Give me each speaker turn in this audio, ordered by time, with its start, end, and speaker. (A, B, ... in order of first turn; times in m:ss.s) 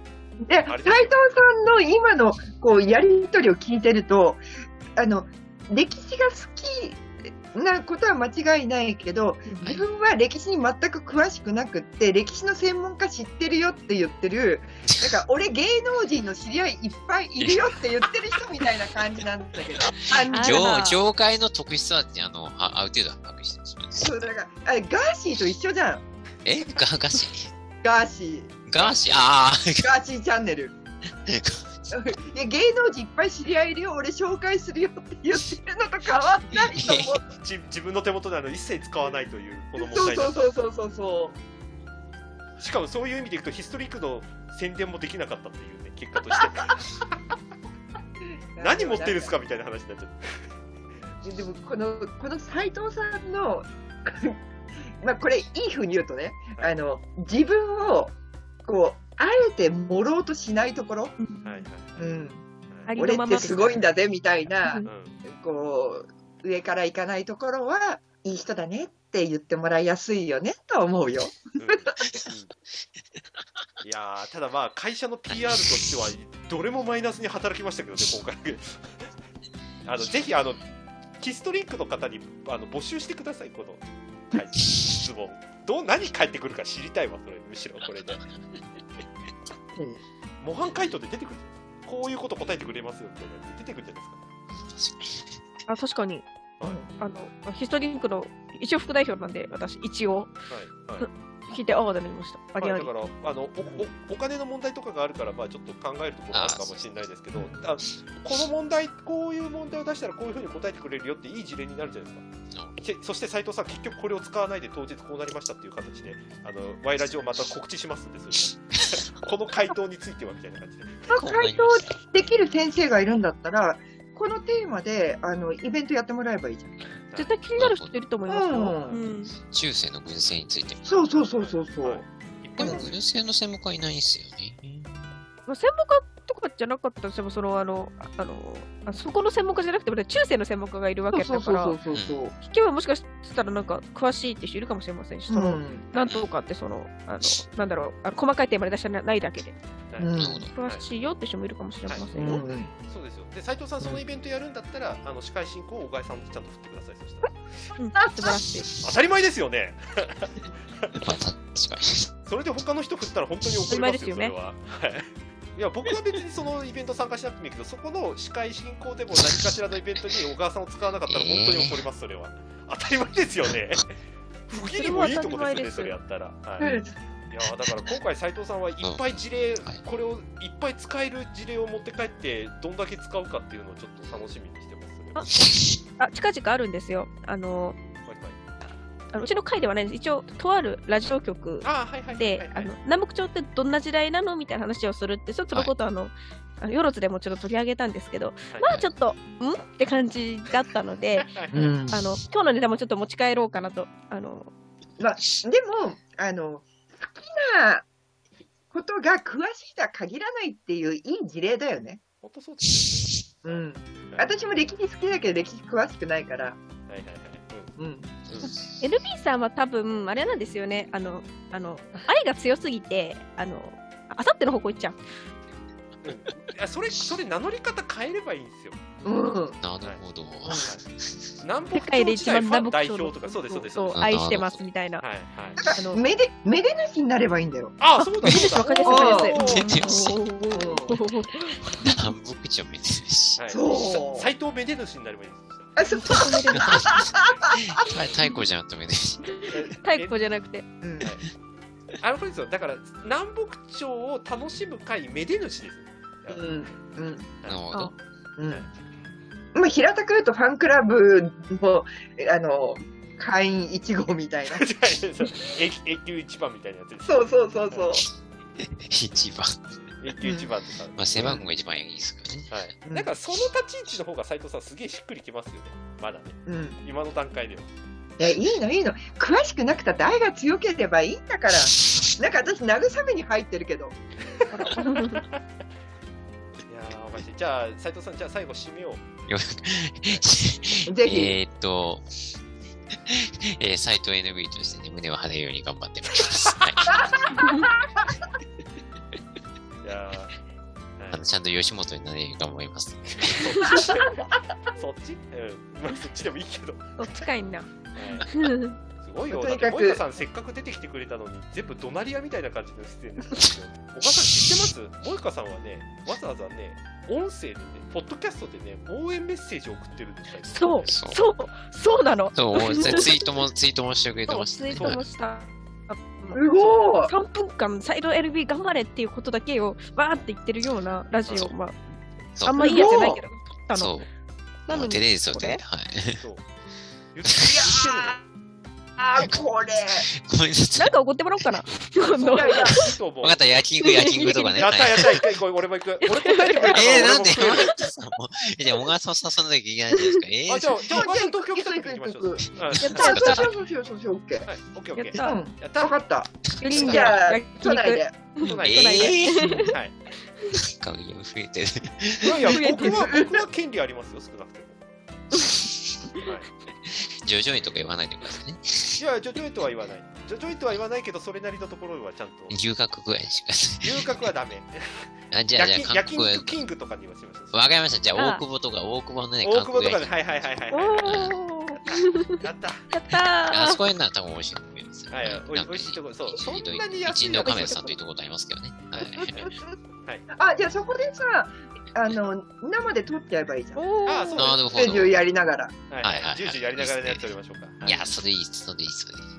0:00.4-0:04.4 A
0:00.7-0:01.2 B
0:05.0-0:20.7 A
0:09.6-0:09.9 C
0:17.4-0:17.7 C
0:19.8-0:24.2 C
0:20.3-0:21.0 D
0:24.0-0:26.0 A
0:26.4-0:27.5 C
0:27.8-0:28.6 A
0:28.7-0:29.9 C
0:29.8-0:30.8 A
0:31.3-0:31.9 C
0:31.9-0:37.2 A
0:36.7-0:37.1 C
0:37.3-0:40.6 B
0:39.8-0:41.4 A
0:42.6-0:47.2 B
0:48.5-0:49.3 A
0:48.6-0:50.5 B
0:51.2-0:54.4 A
0:55.0-0:58.1 A
0:58.6-1:01.2 A
1:01.2-1:01.5 D
1:01.4-1:02.2 B
1:02.0-1:12.2 A
1:02.7-1:03.0 B
1:02.9-1:03.8 D
1:04.8-1:05.2 B
1:11.6-1:12.5 B
1:13.8-1:19.1 B
1:15.3-1:15.7 C
1:19.8-1:20.6 B
1:21.2-1:28.2 B
1:29.8-1:30.0 A
1:30.4-1:34.2 B
1:34.6-1:35.4 C
1:35.7-1:36.3 D
1:36.6-1:36.9 A
1:36.9-1:40.4 D
1:40.5-1:41.1 B
1:41.0-1:42.9 D
1:42.6-1:52.3 B
1:46.3-1:47.1 C
1:47.4-1:47.6 A
1:52.8-2:01.2 B
2:01.1-2:06.7 A
2:01.1-2:01.9 C
2:07.1-2:07.4 B
2:07.2-2:09.3 D
2:07.6-2:07.9 C
2:08.3-2:09.0 A
2:09.3-2:10.8 C
2:10.8-2:12.0 A
2:11.1-2:12.8 B
2:12.6-2:15.2 C
2:12.6-2:12.9 A
2:15.5-2:21.8 D
2:21.1-2:22.3 A
2:21.9-2:22.2 C
2:22.4-2:29.6 D
2:25.3-2:25.8 A
2:25.9-2:26.3 C
2:29.9-2:30.8 B
2:30.0-2:30.4 A
2:30.2-2:30.5 C
2:30.6-2:32.4 D
2:31.9-2:37.4 B
2:32.2-2:32.7 A
2:37.8-2:38.7 D
2:38.8-2:41.0 B
2:40.9-2:42.1 C
2:42.2-2:56.7 B
2:43.7-2:44.4 D
2:51.1-2:51.8 C
2:54.5-2:56.0 D
2:56.6-2:56.9 A
2:57.3-3:05.3 B
2:58.8-2:59.8 C
3:06.0-3:07.8 D
3:08.0-3:08.4 B
3:09.1-3:21.3 D
3:11.6-3:12.7 B
3:18.5-3:18.8 B
3:21.2-3:21.8 B
3:21.5-3:22.0 A
3:21.9-3:24.5 D
3:25.0-3:27.9 A
3:28.7-3:32.0 A
3:32.2-3:34.3 B
3:33.4-3:36.6 A
3:36.9-3:37.7 B
3:37.8-3:38.2 A
3:38.8-3:45.0 D
3:46.0-3:49.0 B
3:49.0-3:49.6 A
3:49.6-3:51.1 C
3:50.4-3:50.7 A
3:50.6-3:50.8 B
3:51.4-3:54.0 B
3:51.7-3:55.0 D
3:53.9-3:54.6 C
3:55.0-3:55.6 B
3:55.6-3:57.8 A
3:55.7-3:56.0 D
3:57.8-3:59.7 B
3:58.2-4:02.0 D
3:58.8-3:59.6 A
3:59.4-4:00.2 C
4:00.5-4:01.0 A
4:01.8-4:03.4 C
4:03.4-4:05.7 B
4:03.5-4:04.3 A
4:05.8-4:07.9 A
4:05.9-4:06.9 D
4:06.6-4:09.5 C
4:09.4-4:10.7 D
4:09.5-4:10.1 B
4:10.8-4:11.1 A
4:11.0-4:11.2 B
4:12.0-4:16.6 B
4:16.3-4:17.3 A
4:17.5-4:17.9 C
4:18.4-4:18.7 A
4:19.6-4:24.7 A
4:24.5-4:27.9 B
4:27.1-4:28.1 A
4:28.6-4:29.6 C
4:30.0-4:31.4 B
4:30.2-4:30.5 A
4:31.0-4:32.5 C
4:31.2-4:31.5 A
4:32.5-4:37.7 B
4:32.9-4:33.1 A
4:36.5-4:36.8 A
4:38.2-4:44.0 A
4:44.3-4:45.4 B
4:44.5-4:45.2 D
4:46.7-4:49.0 B
4:49.3-4:52.1 C
4:50.9-4:51.4 A
4:53.0-4:57.7 C
4:59.8-5:00.4 B
5:01.0-5:01.2 B
5:01.1-5:03.7 C
5:03.2-5:07.3 B
5:07.0-5:08.8 D
5:07.9-5:08.3 B
5:09.0-5:20.9 B
5:09.3-5:10.0 A
5:20.5-5:23.3 D
5:20.9-5:21.2 C
5:22.4-5:25.0 C
5:24.3-5:31.8 D
5:26.3-5:27.1 A
5:32.4-5:32.8 C
5:32.4-5:34.0 D
5:32.6-5:33.2 A
5:33.8-5:34.1 C
5:34.7-5:35.6 D
5:34.7-5:36.3 C
5:36.2-5:36.4 B
5:37.1-5:38.2 B
5:37.3-5:37.6 C
5:37.4-5:38.2 A
5:39.0-5:40.1 A
5:39.2-5:39.4 C
5:40.0-5:40.9 C
5:40.8-5:42.9 D
5:42.1-5:42.8 A
5:42.3-5:43.7 B
5:43.2-5:45.3 C
5:43.8-5:45.4 D
5:44.6-5:47.9 B
5:46.0-5:47.2 D
5:46.7-5:51.0 C
5:50.5-5:53.1 B
5:50.9-5:54.5 A
5:52.6-5:53.5 C
5:52.8-5:53.5 D
5:54.4-5:55.9 B
5:55.0-5:55.4 D
5:55.2-5:58.2 A
5:56.6-5:57.1 C
5:56.6-5:59.8 D
5:58.4-5:59.8 C
5:58.4-6:00.0 B
6:00.6-6:02.6 C
6:02.2-6:04.9 B
6:02.4-6:03.1 D
6:02.9-6:03.4 A
6:06.2-6:06.5 B
6:06.9-6:09.0 C
6:09.0-6:12.5 B
6:12.5-6:14.3 C
6:13.8-6:17.6 B
6:15.3-6:16.5 C
6:17.5-6:20.2 C
6:18.2-6:18.4 D
6:19.4-6:21.4 B
6:20.7-6:23.8 D
6:21.0-6:21.4 C
6:22.3-6:22.9 B
6:23.5-6:29.4 C
6:25.1-6:27.9 B
6:27.4-6:27.9 D
6:29.0-6:30.3 B
6:29.0-6:29.8 A
6:30.3-6:33.8 A
6:33.8-6:34.6 D
6:34.1-6:34.6 B
6:34.4-6:35.2 C
6:34.7-6:35.8 A
6:35.9-6:38.1 B
6:36.0-6:37.2 C
6:37.8-6:39.3 C